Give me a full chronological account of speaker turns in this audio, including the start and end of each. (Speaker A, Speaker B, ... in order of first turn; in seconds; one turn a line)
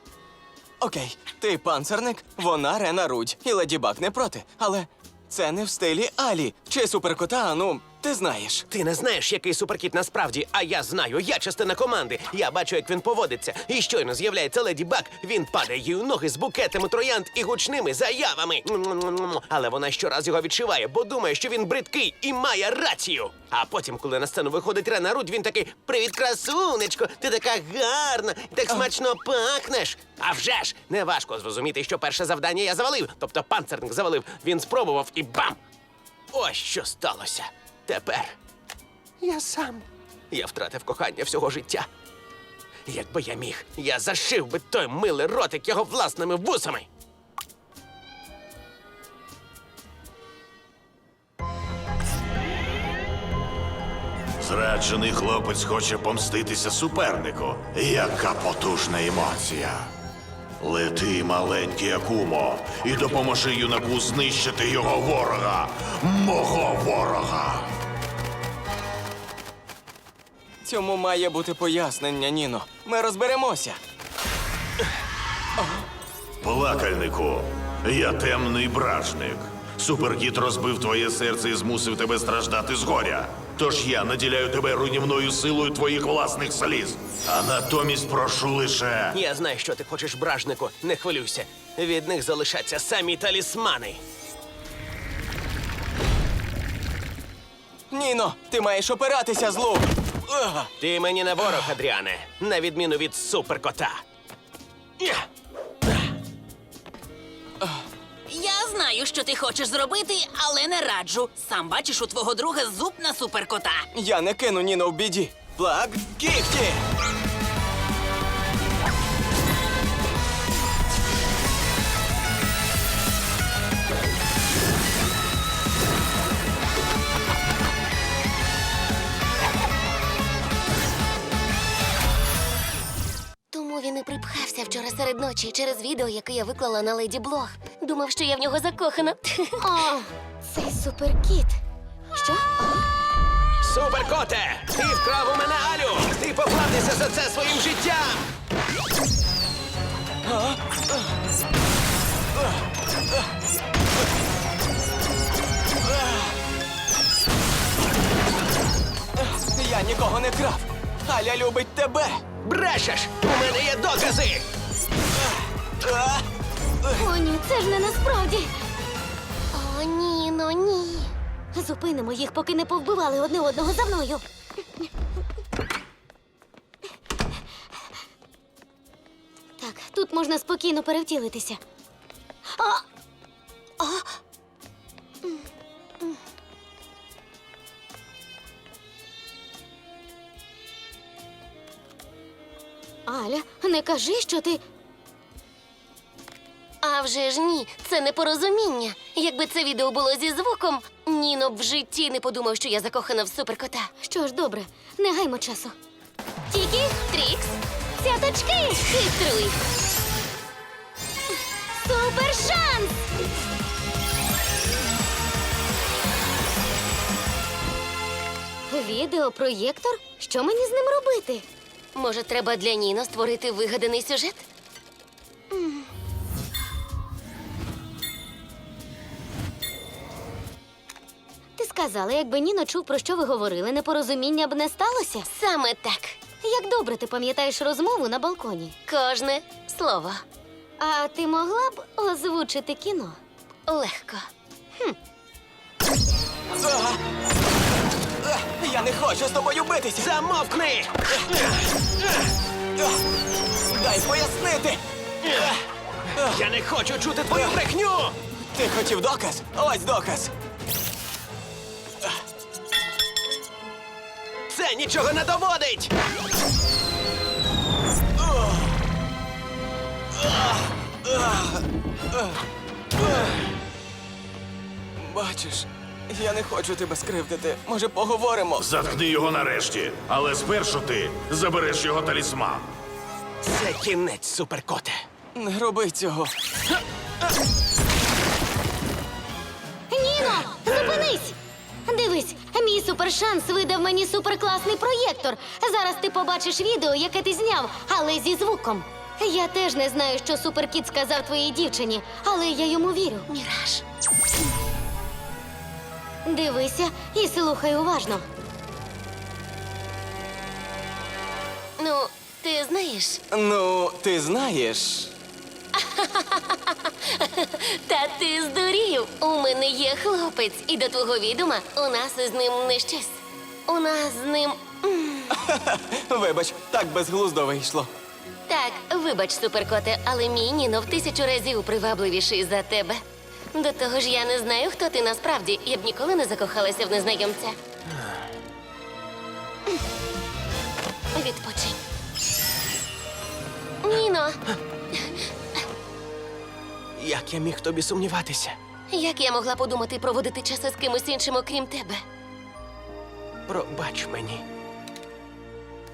Speaker A: 0.8-8.7
Speaker B: 8.7-35.6
Speaker B: 36.3-38.4
Speaker B: 39.2-41.9
Speaker B: 42.9-46.9
Speaker C: 54.4-59.9
Speaker C: 60.6-67.7
Speaker A: 70.6-73.8
Speaker A: 75.6-75.9
Speaker C: 76.4-89.2
Speaker B: 89.1-94.0
Speaker A: 97.9-100.7
Speaker B: 100.8-104.0
Speaker B: 105.0-105.3
Speaker D: 108.3-113.9
Speaker A: 113.9-116.8
Speaker E: 133.5-139.6
Speaker F: 139.6-141.6
Speaker F: 142.2-142.5
Speaker B: 143.6-148.3
Speaker A: 150.2-151.2
Speaker A: 152.3-153.3
Speaker A: 155.8-156.3
Speaker A: 159.2-162.2
Speaker B: 162.4-164.5
Speaker A: 165.2-166.3
Speaker F: 166.9-168.5
Speaker E: 169.5-171.1
Speaker F: 171.5-174.2
Speaker F: 179.6-181.6
Speaker F: 182.6-182.8
Speaker F: 193.1-194.6
Speaker E: 196.8-203.9
Speaker F: 204.0-205.7
Speaker E: 206.6-207.6
Speaker F: 208.0-209.0
Speaker E: 208.9-209.6
Speaker F: 211.8-213.0
Speaker F: 218.7-221.4
Speaker E: 221.9-224.4
Speaker F: 231.6-235.3
Speaker E: 235.3-236.2
Speaker F: 236.4-238.8
Speaker E: 238.9-240.2
Speaker F: 240.8-243.2
Speaker E: 243.7-244.3
Speaker A: 246.6-247.0
Speaker A: 248.2-250.1
Speaker B: 250.0-251.3
Speaker A: 253.7-255.5
Speaker A: 256.2-256.5
Speaker B: 256.2-258.2
Speaker A: 258.6-260.3
Speaker B: 264.5-265.9
Speaker A: 268.2-268.8
Speaker A: 270.1-272.4
Speaker A: 273.0-273.4
Speaker A: 275.0-278.7
Speaker C: 278.6-282.7
Speaker B: 283.4-285.0
Speaker A: 285.4-286.3
Speaker F: 289.9-291.4
Speaker F: 291.9-303.3
Speaker E: 303.3-303.8
Speaker F: 306.3-308.3
Speaker E: 311.8-313.2
Speaker A: 313.3-315.1
Speaker E: 315.8-325.4
Speaker A: 325.4-327.9
Speaker E: 328.5-333.0
Speaker E: 333.6-337.6
Speaker E: 341.1-341.8
Speaker E: 343.8-344.4
Speaker E: 344.9-345.2
Speaker B: 347.0-348.6
Speaker E: 348.9-352.0
Speaker B: 353.5-354.4